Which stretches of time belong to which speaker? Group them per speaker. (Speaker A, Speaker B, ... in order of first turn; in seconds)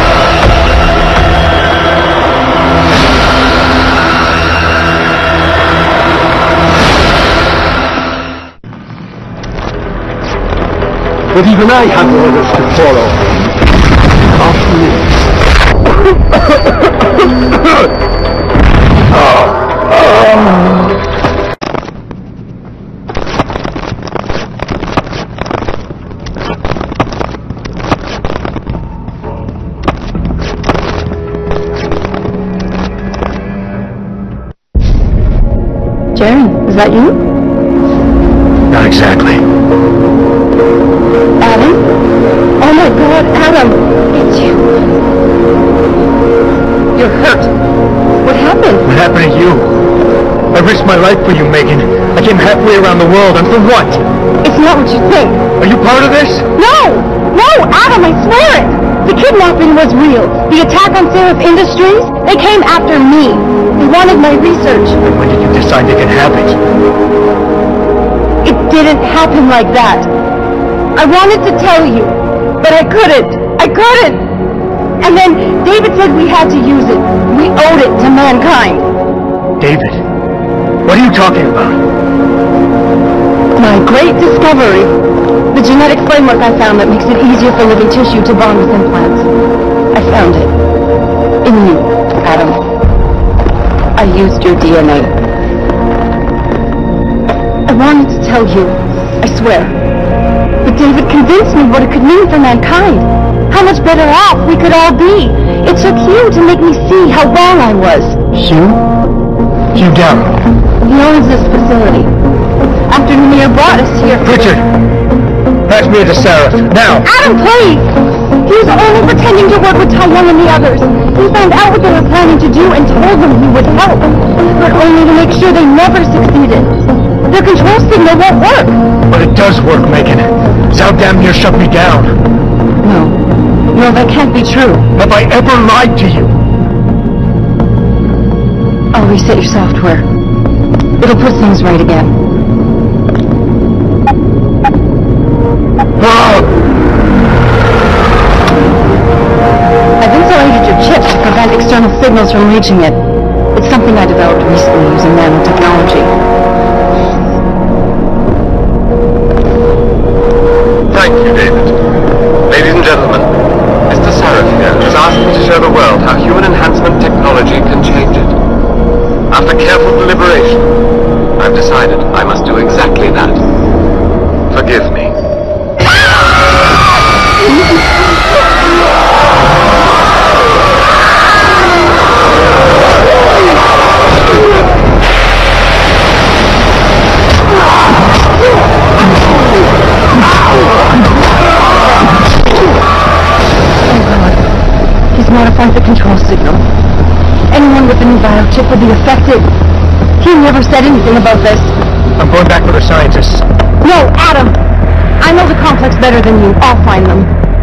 Speaker A: 11.3-13.3, 14.4-15.1
Speaker B: 36.1-37.2, 41.4-41.8, 42.6-44.8, 46.9-47.5, 48.2-48.9, 54.4-55.4, 56.5-65.0, 68.4-70.1, 70.9-74.2, 75.0-78.9, 83.5-84.9, 85.5-89.3, 89.9-90.5, 91.4-92.6, 94.0-95.1, 97.7-99.8, 100.6-108.2, 110.8-112.1, 112.9-114.5, 117.0-117.9, 118.4-128.8, 132.8-133.2, 133.7-134.9, 138.9-140.1, 141.0-142.2, 150.0-153.0, 153.5-156.1, 193.8-194.5, 195.1-196.7, 197.5-199.5, 200.2-201.7, 203.8-204.6, 205.2-207.3
Speaker C: 38.7-39.4, 48.8-49.7, 50.5-54.0, 55.6-56.4, 65.0-66.6, 79.6-80.0, 80.8-81.8, 108.3-108.8, 109.7-110.3, 114.2-114.7, 115.7-117.1, 129.1-132.2, 134.9-136.3, 146.0-146.4, 202.2-203.4
Speaker D: 160.9-161.8, 162.5-163.3, 163.9-168.4, 169.3-170.7, 171.4-173.4, 174.5-175.2